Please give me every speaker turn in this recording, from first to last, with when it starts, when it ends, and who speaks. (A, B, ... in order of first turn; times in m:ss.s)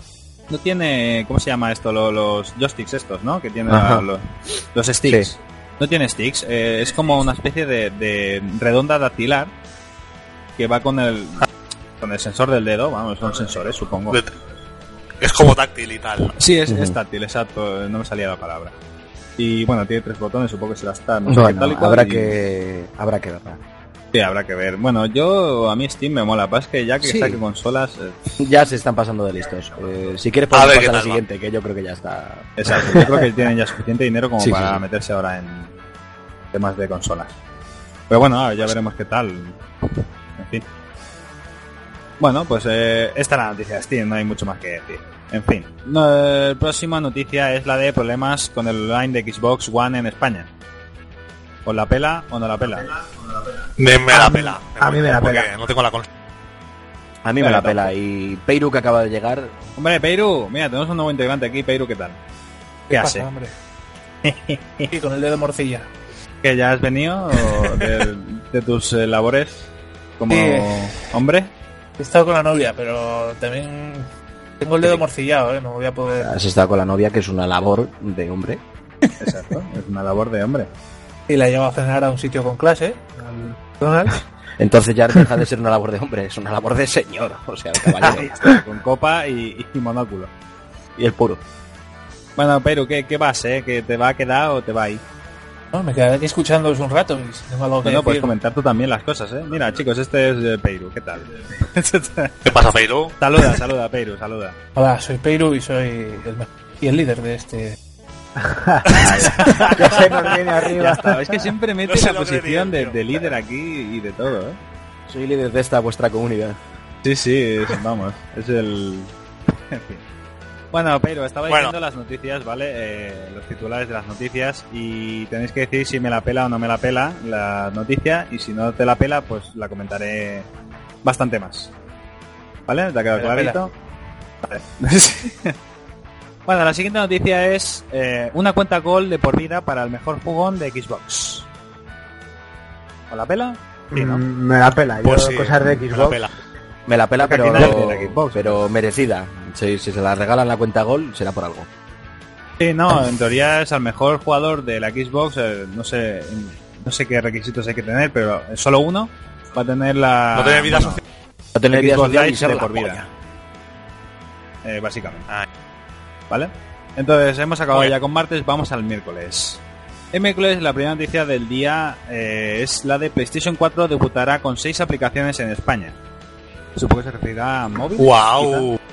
0:00.5-0:09.5 A
0:03.7-0:04.1 B
0:10.6-0:11.5 A
0:12.0-0:14.2 A
0:15.2-0:16.4 C
0:16.4-0:18.8 A
0:16.7-0:17.0 B
0:19.4-0:22.4 A
0:21.3-0:23.6 B
0:24.1-0:28.5 A
0:27.0-0:27.4 B
0:28.4-0:33.5 B
0:30.5-0:31.2 C
0:32.6-0:35.7 A
0:34.4-0:34.8 B
0:36.5-0:37.3 A
0:38.1-0:39.6 A
0:40.4-0:40.6 A
0:42.2-0:50.5 A
0:51.7-0:52.9 A
0:53.8-0:56.1 C
0:54.1-0:55.5 D
0:57.2-0:59.6 B
0:57.4-0:57.9 A
0:59.8-1:02.2 A
1:02.9-1:03.3 A
1:02.9-1:03.5 E
1:04.2-1:04.9 A
1:04.9-1:05.9 E
1:06.4-1:09.7 A
1:10.2-1:11.5 A
1:10.3-1:10.8 E
1:12.0-1:14.1 E
1:14.6-1:16.3 E
1:16.2-1:18.6 B
1:19.2-1:20.7 A
1:21.3-1:24.2 E
1:24.6-1:28.6 B
1:28.0-1:30.3 A
1:31.0-1:31.4 B
1:32.4-1:35.0 A
1:35.7-1:38.3 E
1:37.8-1:42.6 A
1:42.4-1:43.2 C
1:43.2-1:44.6 A
1:44.8-1:47.8 E
1:48.4-1:51.2 D
1:48.9-1:49.2 C
1:49.0-1:54.6 A
1:50.8-1:51.5 B
1:51.9-1:53.0 C
1:55.1-1:56.6 B
1:57.0-2:00.0 A
2:00.7-2:10.5 A
2:01.5-2:01.7 C
2:11.0-2:11.7 A
2:12.7-2:13.7 A
2:13.2-2:13.6 E
2:14.4-2:15.6 A
2:16.5-2:21.5 A
2:23.1-2:24.2 A
2:23.9-2:26.3 D
2:25.0-2:26.3 C
2:26.9-2:31.7 B
2:27.2-2:28.7 A
2:32.6-2:41.0 A
2:40.3-2:41.0 C
2:41.6-2:43.1 B
2:41.7-2:43.0 A
2:44.6-2:45.3 A
2:46.3-2:49.6 A
2:50.1-2:56.0 A
2:56.8-2:58.7 A
2:58.0-2:58.8 C